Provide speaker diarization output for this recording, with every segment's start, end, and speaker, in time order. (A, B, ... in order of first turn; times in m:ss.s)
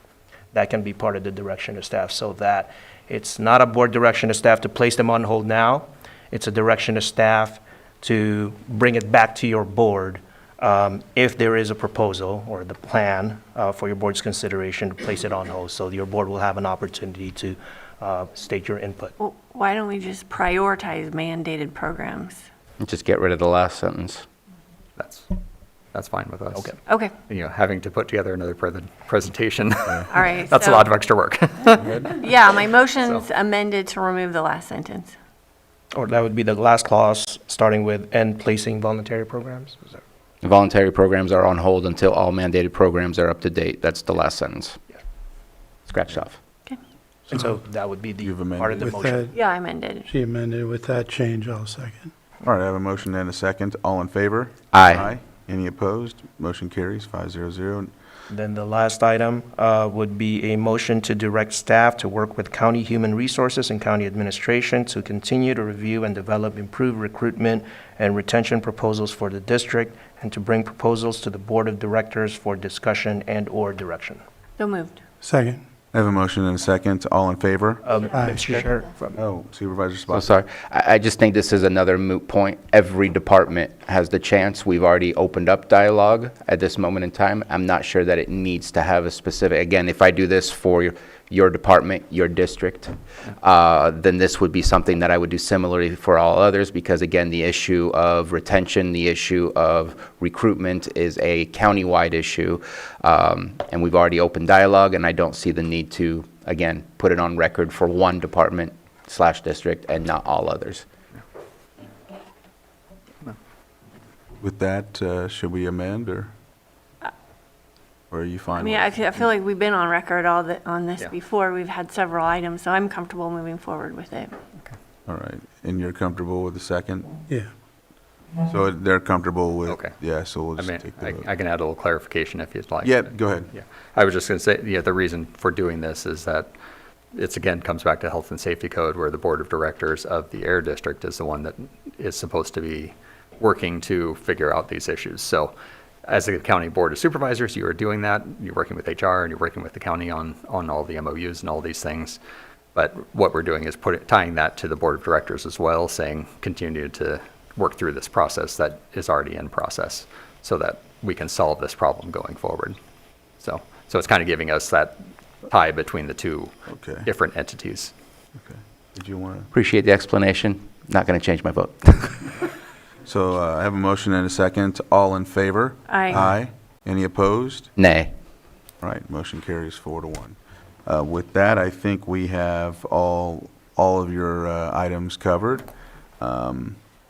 0:00.5-0:19.2 A
0:19.2-0:22.4 B
0:22.8-0:24.2 C
0:25.0-0:25.4 D
0:25.9-0:32.5 D
0:26.8-0:27.2 B
0:30.1-0:30.9 B
0:31.8-0:32.1 E
0:32.1-0:35.1 B
0:33.0-0:33.2 D
0:35.9-0:40.0 A
0:40.4-0:44.8 C
0:45.9-0:46.4 C
0:47.3-0:49.3 A
0:48.2-0:48.9 E
0:48.8-0:49.3 F
0:49.3-0:50.1 B
0:50.0-0:52.1 F
0:52.4-0:57.9 E
0:54.7-0:55.1 C
0:58.3-1:14.2 A
1:14.6-1:15.0 B
1:15.2-1:15.6 F
1:15.9-1:17.8 E
1:17.8-1:19.2 A
1:18.1-1:18.6 F
1:19.2-1:20.3 E
1:20.1-1:50.8 C
1:54.4-1:56.3 E
1:58.1-1:59.2 E
1:58.6-2:04.3 B
2:05.1-2:07.1 E
2:08.4-2:11.2 E
2:09.6-2:10.0 D
2:10.5-2:16.5 D
2:12.8-2:13.5 E
2:17.1-2:25.5 D
2:26.0-2:32.2 D
2:32.7-2:42.8 D
2:43.4-2:47.9 D
2:46.7-2:47.1 E
2:48.4-2:49.5 E
2:49.5-2:52.4 C
2:53.0-2:57.7 E
2:55.9-2:56.2 B
2:57.8-2:58.1 C
2:58.8-3:05.7 E
3:06.2-3:06.8 E